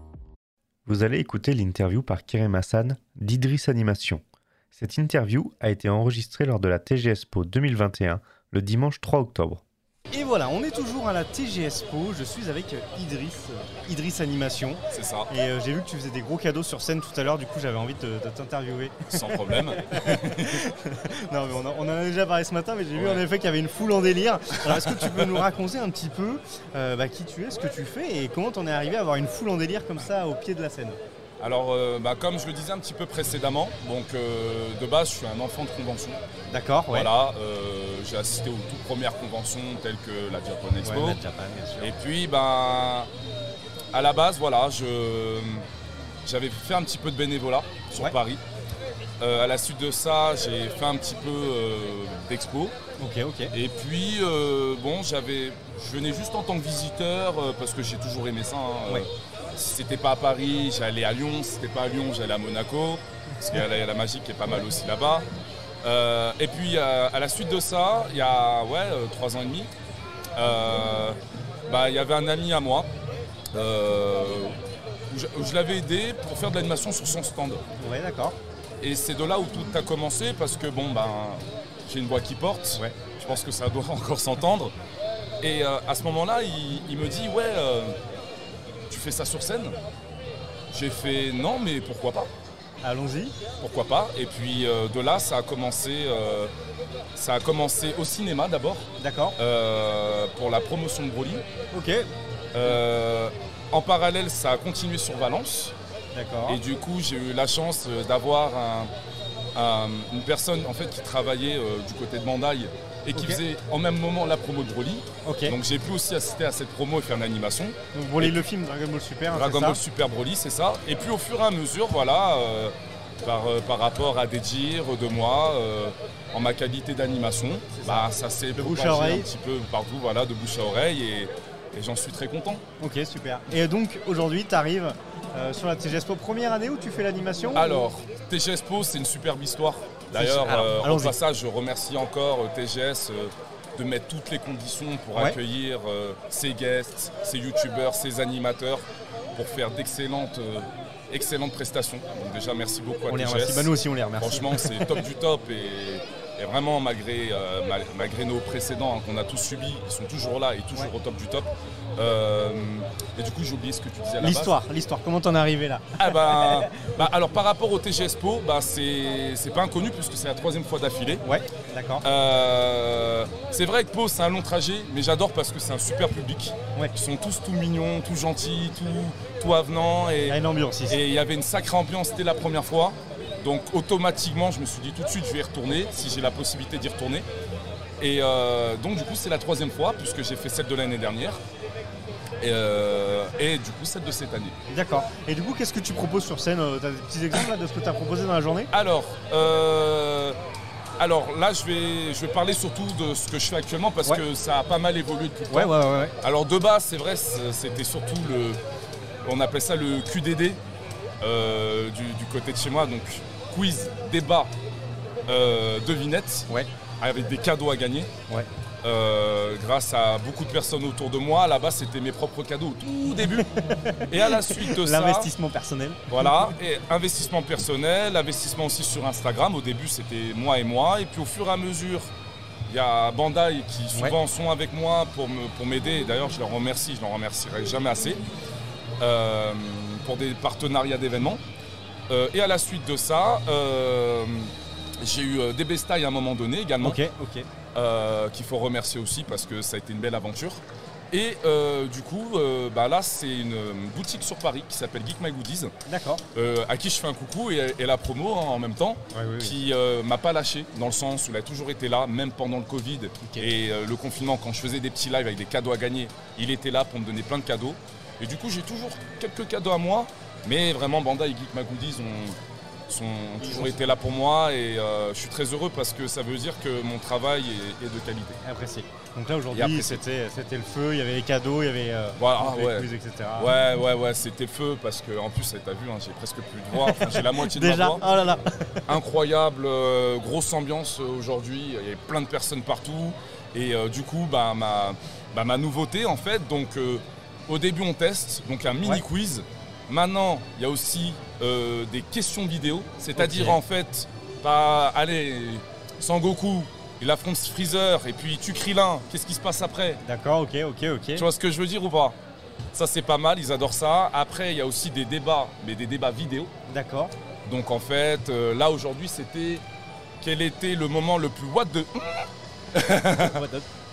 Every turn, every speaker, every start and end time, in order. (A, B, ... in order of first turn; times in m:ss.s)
0:00.9-0:04.2 A
0:04.7-0:09.6 A
0:10.1-0:31.0 B
0:14.9-0:15.3 C
0:19.1-0:20.6 C
0:23.0-0:23.2 C
0:24.6-0:25.4 C
0:31.4-0:36.2 C
0:36.5-0:37.1 B
0:36.9-0:41.2 C
0:40.8-0:41.9 B
0:41.8-0:43.1 C
0:43.9-0:45.7 C
0:46.2-0:48.4 C
0:49.2-0:52.8 C
0:53.0-0:53.5 B
0:53.5-1:05.3 C
1:05.8-1:09.7 C
1:10.4-1:12.9 C
1:13.5-1:14.6 C
1:15.1-1:17.6 C
1:17.8-1:18.4 B
1:18.8-1:24.7 C
1:22.7-1:23.0 B
1:25.4-1:28.0 C
1:28.9-1:29.8 C
1:30.7-1:32.3 C
1:32.8-1:33.4 B
1:33.6-1:36.5 C
1:37.2-1:41.5 C
1:39.0-1:39.4 B
1:41.7-1:42.1 B
1:42.5-1:45.8 C
1:46.1-1:46.6 B
1:46.5-1:48.9 C
1:49.6-1:58.5 C
1:53.1-1:53.4 B
1:55.2-1:55.6 B
1:57.9-1:59.8 B
1:59.3-2:12.6 C
2:07.8-2:09.3 B
2:12.8-2:17.8 B
2:17.5-2:44.6 C
2:20.1-2:21.2 B
2:25.1-2:25.4 B
2:33.1-2:35.0 B
2:44.2-2:46.9 B
2:46.0-2:51.2 C
2:51.2-2:52.0 B
2:52.0-3:07.3 C
3:00.3-3:01.0 B
3:08.0-3:11.4 C
3:12.4-3:14.6 C
3:14.7-3:18.7 B
3:18.7-3:20.4 C
3:21.0-3:28.6 C
3:25.5-3:26.2 B
3:29.2-3:30.6 C
3:31.2-3:34.5 C
3:35.3-3:36.5 C
3:37.0-3:38.1 C
3:38.8-3:45.3 C
3:43.4-3:46.5 B
3:46.1-3:52.1 C
3:52.7-3:58.2 C
3:53.9-3:54.2 B
3:59.0-4:01.4 C
4:02.1-4:07.0 C
4:06.8-4:07.5 B
4:07.7-4:15.7 C
4:15.9-4:16.2 B
4:16.4-4:32.4 C
4:19.1-4:19.6 B
4:32.9-4:38.4 C
4:33.4-4:33.8 B
4:38.4-4:43.5 B
4:39.5-4:40.0 C
4:42.2-4:48.2 C
4:46.7-4:48.9 B
4:48.9-5:10.0 C
5:03.2-5:03.6 B
5:10.0-5:11.3 B
5:11.2-5:12.2 C
5:12.7-5:16.5 C
5:16.7-5:17.1 B
5:17.4-5:19.6 C
5:20.2-5:23.4 C
5:23.0-5:23.7 B